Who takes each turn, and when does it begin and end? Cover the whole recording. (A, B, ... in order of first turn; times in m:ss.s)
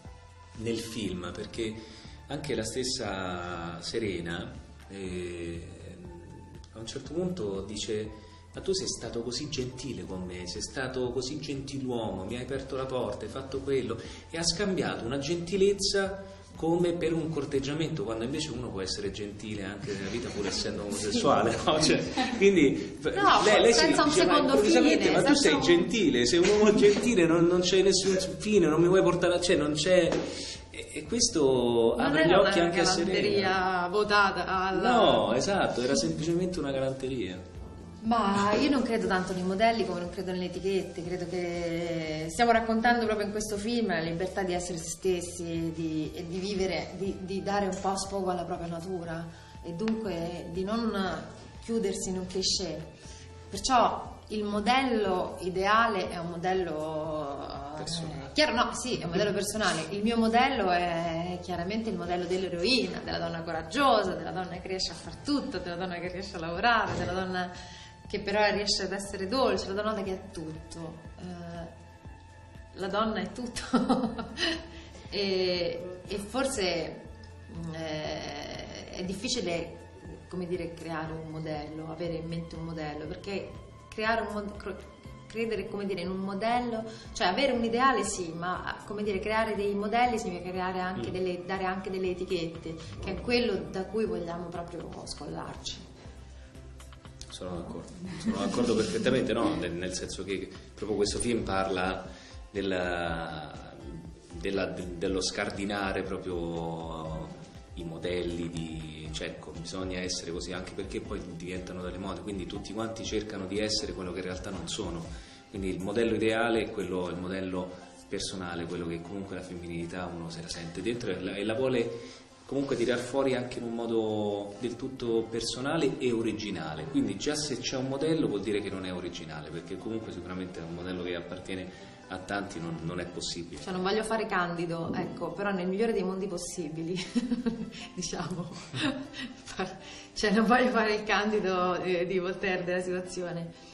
0:00.6-0:33.5 A
0:23.1-0:25.9 B
0:32.0-0:35.3 B
0:34.7-0:37.4 A
0:38.0-0:52.9 B
0:53.5-1:07.5 B
0:57.8-0:58.3 A
1:08.1-1:11.7 B
1:12.7-1:35.8 B
1:37.3-2:13.7 A
2:13.6-2:23.5 B